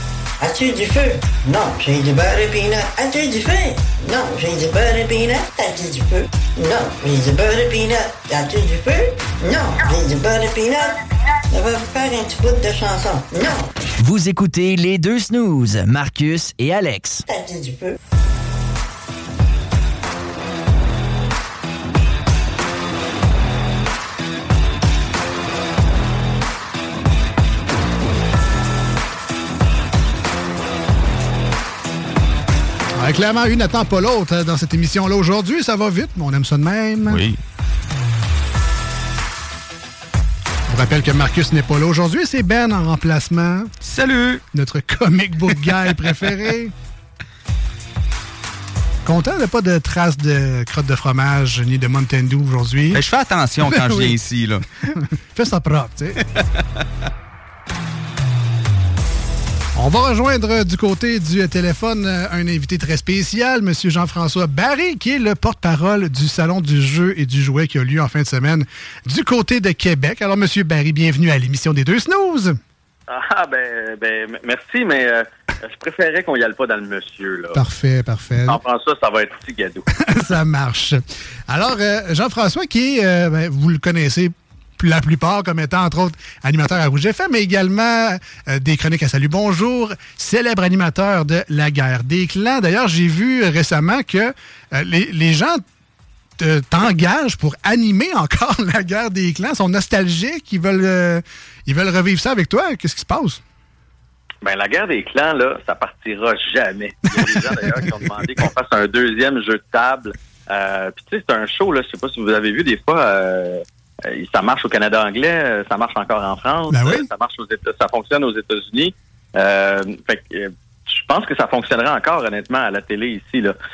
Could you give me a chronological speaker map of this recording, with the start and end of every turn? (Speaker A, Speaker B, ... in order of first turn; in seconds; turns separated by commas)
Speaker A: 0.4-11.0, Speaker A: 11.5-13.7, Speaker B: 14.0-17.2, Speaker A: 17.3-17.9, Speaker C: 33.0-37.2, Speaker D: 37.1-37.4, Speaker C: 40.7-43.7, Speaker D: 43.8-44.4, Speaker C: 44.5-46.7, Speaker C: 49.0-53.0, Speaker D: 52.9-54.6, Speaker C: 53.6-54.2, Speaker C: 54.9-56.2, Speaker C: 59.8-72.6, Speaker E: 73.1-77.6, Speaker C: 77.5-78.6, Speaker E: 78.5-79.9, Speaker C: 79.9-95.6, Speaker C: 96.4-103.4, Speaker E: 104.4-123.6, Speaker C: 107.1-108.2, Speaker C: 116.7-117.1